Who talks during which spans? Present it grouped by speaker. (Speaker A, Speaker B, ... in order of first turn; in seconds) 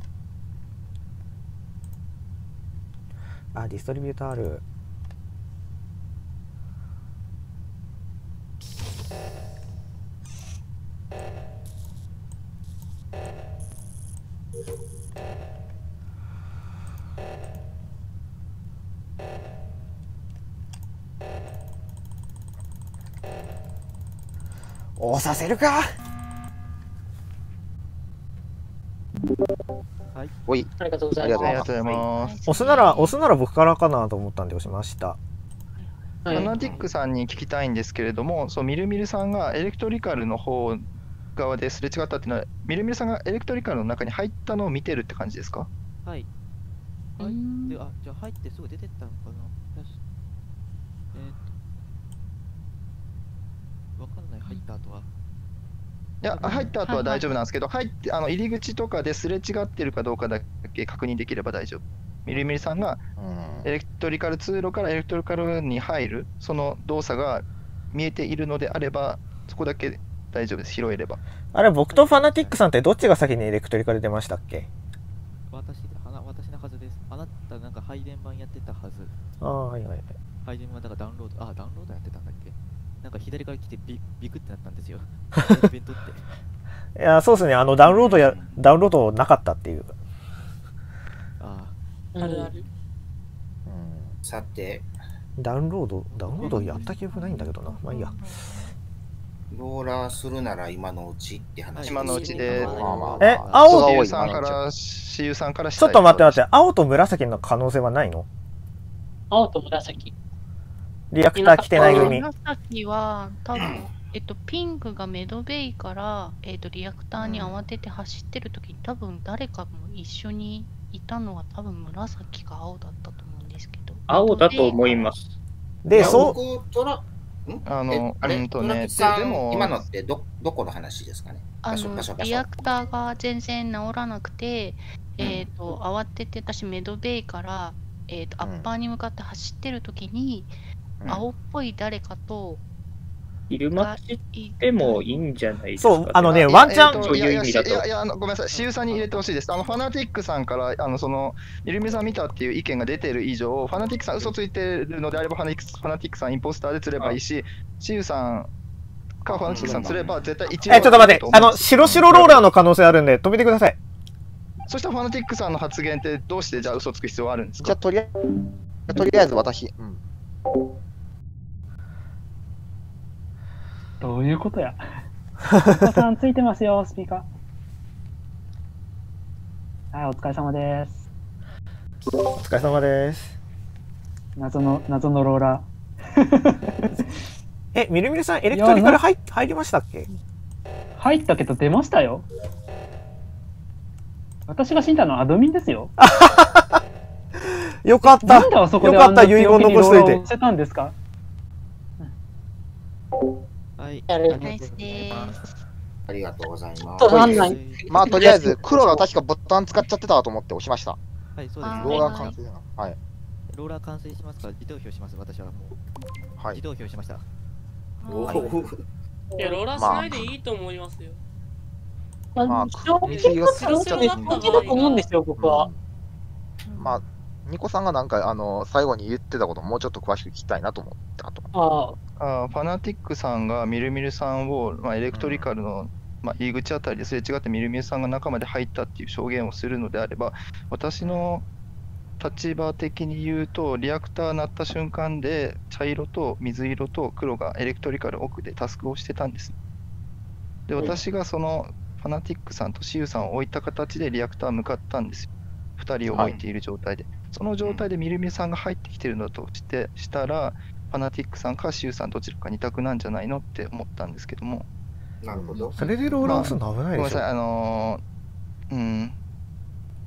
Speaker A: 3.5-4.6, 25.0-25.9, 32.5-35.2, 71.5-74.7, 79.4-80.1, 87.0-89.9, 95.4-98.1, 103.2-103.9, 105.8-108.3, 111.1-112.3, 125.8-126.4, 145.8-147.1, 160.7-163.8, 182.3-183.4, 187.7-190.1, 196.0-196.6, 197.8-200.2, 265.8-267.2
Speaker B: 30.5-32.0, 63.2-63.7, 93.7-94.2, 102.6-104.6, 117.2-117.7, 138.4-138.7, 159.3-160.2, 161.8-162.1, 167.6-168.1, 168.9-170.0, 207.9-211.0, 211.8-213.0, 219.7-220.3, 222.4-224.5, 225.4-225.8, 226.8-231.5, 235.1-235.5, 256.1-256.4, 265.3-266.5
Speaker C: 30.8-31.6, 36.2-36.6, 92.1-92.5, 109.3-110.1, 111.4-112.1, 204.1-204.5, 207.0-209.0, 219.4-219.6, 222.3-225.7, 231.5-232.0
Speaker D: 31.4-32.4, 36.3-40.9, 41.4-45.7, 56.2-63.0, 63.6-71.2, 101.8-102.9, 103.6-106.4, 127.6-129.8, 146.4-158.5, 159.2-162.4, 164.7-167.8, 232.2-241.4, 242.2-249.5, 250.7-264.7, 266.2-268.0, 268.7-269.1
Speaker E: 32.0-33.2, 35.8-36.4, 47.2-47.8, 56.4-57.4, 96.4-98.7, 111.7-125.1, 131.6-142.6, 143.7-145.3, 160.5-161.2, 204.4-205.4, 211.6-212.4, 218.0-218.6, 226.7-227.0, 265.5-265.8
Speaker F: 36.6-36.9, 87.8-88.6, 94.2-94.9, 99.5-103.1, 113.5-114.0, 125.9-132.4, 135.2-135.5, 159.5-160.2, 206.1-207.5, 211.7-212.1, 218.1-218.8, 257.6-257.9, 265.2-265.8
Speaker G: 47.2-50.0, 51.1-51.5, 54.0-55.1, 56.3-56.8, 71.9-72.6, 75.5-79.1, 80.4-86.3, 91.4-91.7, 96.1-97.0, 101.7-103.7, 148.5-149.3, 203.8-205.4, 207.1-208.3, 211.4-212.3, 213.5-215.8, 216.5-217.2
Speaker H: 92.2-92.6, 102.1-102.5, 219.4-221.2, 223.1-225.1
Speaker I: 124.1-125.4, 143.5-147.8
Speaker J: 174.0-174.8, 175.7-177.3, 179.9-181.0, 184.4-186.9, 188.5-189.0, 191.0-192.3, 194.5-195.9, 198.2-200.9